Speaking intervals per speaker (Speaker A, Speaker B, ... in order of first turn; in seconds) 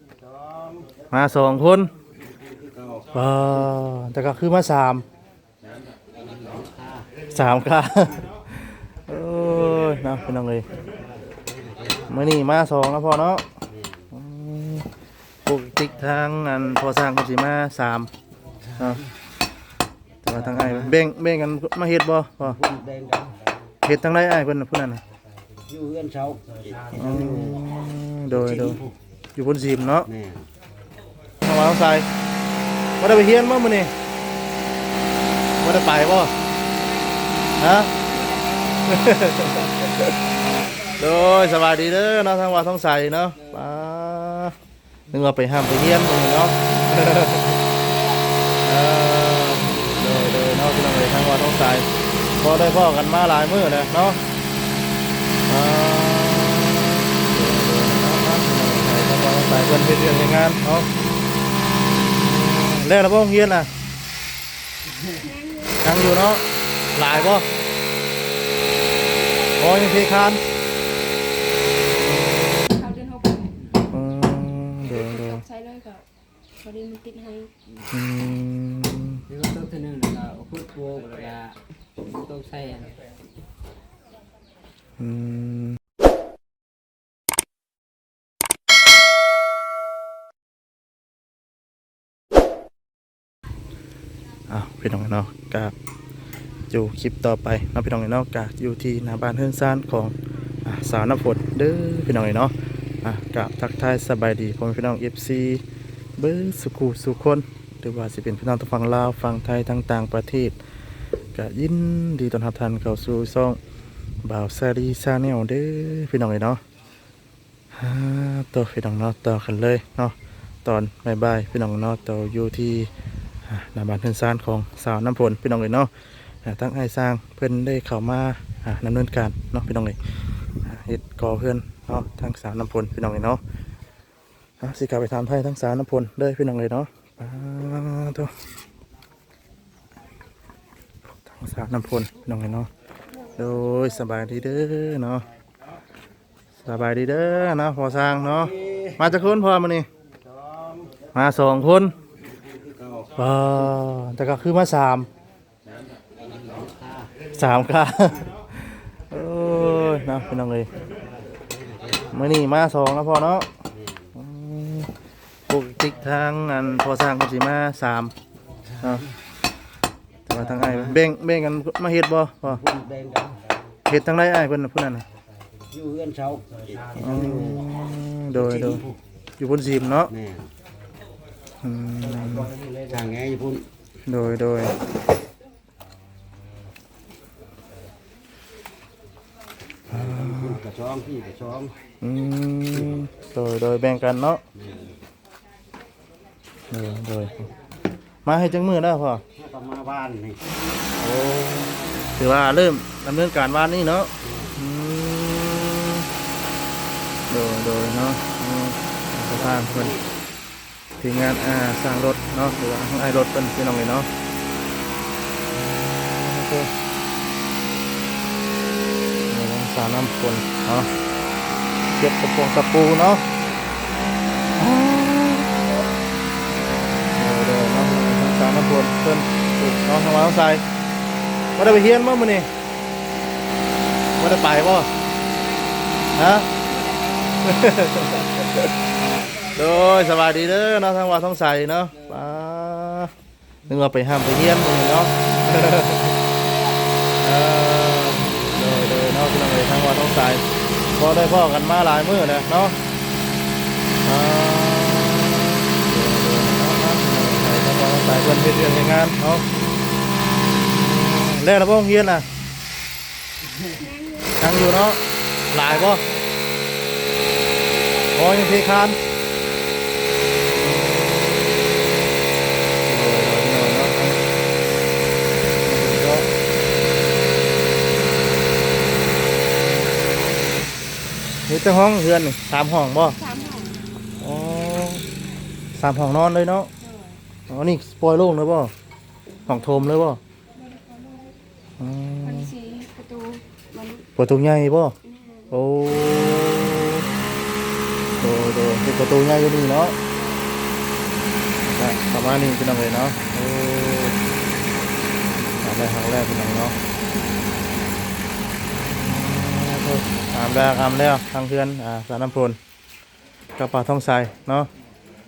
Speaker A: 0.3-0.8, 2.5-3.1, 6.1-7.0, 22.6-23.3, 25.7-27.6, 30.2-30.4, 150.5-150.8, 152.6-153.1, 156.3-157.1, 172.6-173.4, 175.7-177.6, 180.2-180.5, 182.6-183.7, 190.1-191.7, 199.4-200.4
Speaker B: 1.1-1.9, 3.1-5.0, 7.3-10.7, 12.1-13.4, 14.1-14.9, 15.5-18.1, 18.8-19.0, 20.2-22.6, 23.8-25.0, 26.9-28.8, 29.4-30.1, 31.4-32.1, 33.0-33.9, 35.6-36.3, 37.6-38.0, 38.9-40.1, 41.0-44.5, 45.1-47.6, 48.6-51.9, 52.4-54.2, 55.5-60.9, 62.1-63.7, 65.8-67.5, 69.6-70.5, 72.0-72.7, 73.9-75.4, 77.9-79.2, 85.0-85.8, 94.5-95.7, 96.7-100.1, 100.7-105.6, 106.2-110.6, 111.3-113.6, 114.2-116.6, 117.7-122.9, 123.5-125.9, 126.5-130.0, 130.6-133.4, 134.6-138.3, 141.2-142.7, 143.3-145.2, 146.7-149.9, 151.1-152.0, 153.2-155.1, 157.3-160.7, 162.1-163.5, 164.2-164.9, 165.5-168.1, 170.3-172.6, 173.9-175.0, 177.0-178.8, 179.4-180.1, 181.6-182.6, 184.1-184.8, 189.9-190.6, 192.0-194.4, 196.7-197.5, 198.2-199.2, 201.0-206.1, 207.3-210.0, 211.0-214.1, 215.5-216.7, 219.3-220.9, 222.0-223.2, 224.6-225.7, 227.2-230.6, 231.6-232.5, 234.2-234.9, 236.2-236.5, 237.4-238.7, 239.6-243.1, 243.7-246.2, 247.2-250.4, 251.0-252.8, 254.1-259.4, 260.6-262.2, 264.4-265.0, 265.5-266.1, 268.1-269.0, 270.5-272.1, 272.9-274.2, 275.6-276.3, 281.5-283.2, 284.2-285.0, 285.7-286.7, 287.5-288.7, 289.5-290.2, 291.8-292.5, 294.2-295.0, 295.5-297.1, 298.2-299.9, 301.6-304.2, 305.6-306.8, 308.8-312.6, 313.6-314.7
Speaker C: 38.0-39.1, 65.1-66.0, 72.6-73.6, 74.8-76.1, 76.6-77.5, 236.5-237.6, 263.8-264.5, 267.7-268.3, 283.2-283.8, 286.8-287.2, 290.6-291.4, 292.2-294.1, 295.1-295.5, 300.1-300.6
Speaker D: 43.4-43.8, 47.7-48.4, 79.3-83.0, 239.0-239.5, 241.9-242.3, 246.2-246.9